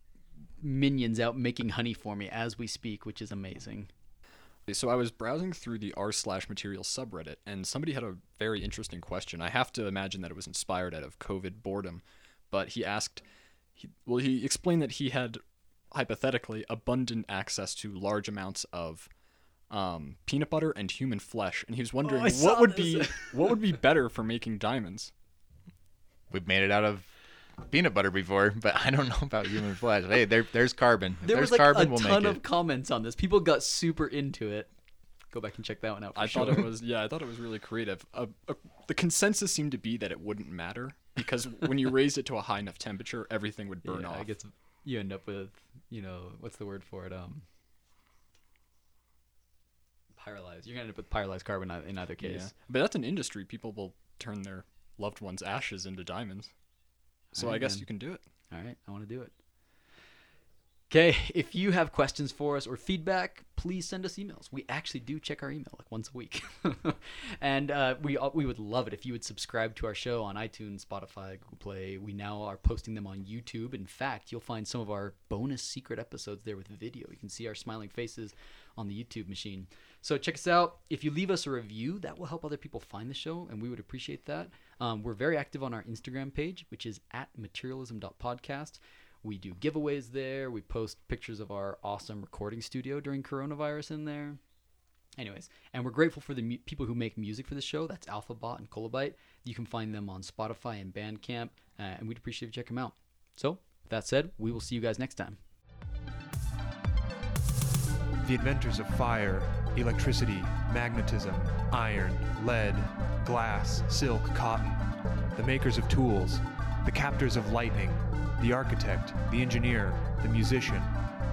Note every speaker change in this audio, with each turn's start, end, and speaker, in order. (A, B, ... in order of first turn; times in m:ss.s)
0:00.6-0:03.9 A
0:04.7-0:13.2 B
0:13.8-0:15.4 B
0:15.9-0:19.1 B
0:19.7-0:25.1 B
0:22.0-0:23.4 A
0:26.3-0:32.4 C
0:31.2-0:34.7 A
0:35.3-0:36.7 A
0:36.2-0:44.3 B
0:43.8-0:47.4 A
0:50.2-0:52.5 A
0:52.2-0:56.5 B
0:57.3-0:57.9 A
0:57.3-0:58.2 B
0:58.5-0:59.4 A
1:00.9-1:34.4 A
1:35.2-1:45.4 A
1:48.2-2:01.0 D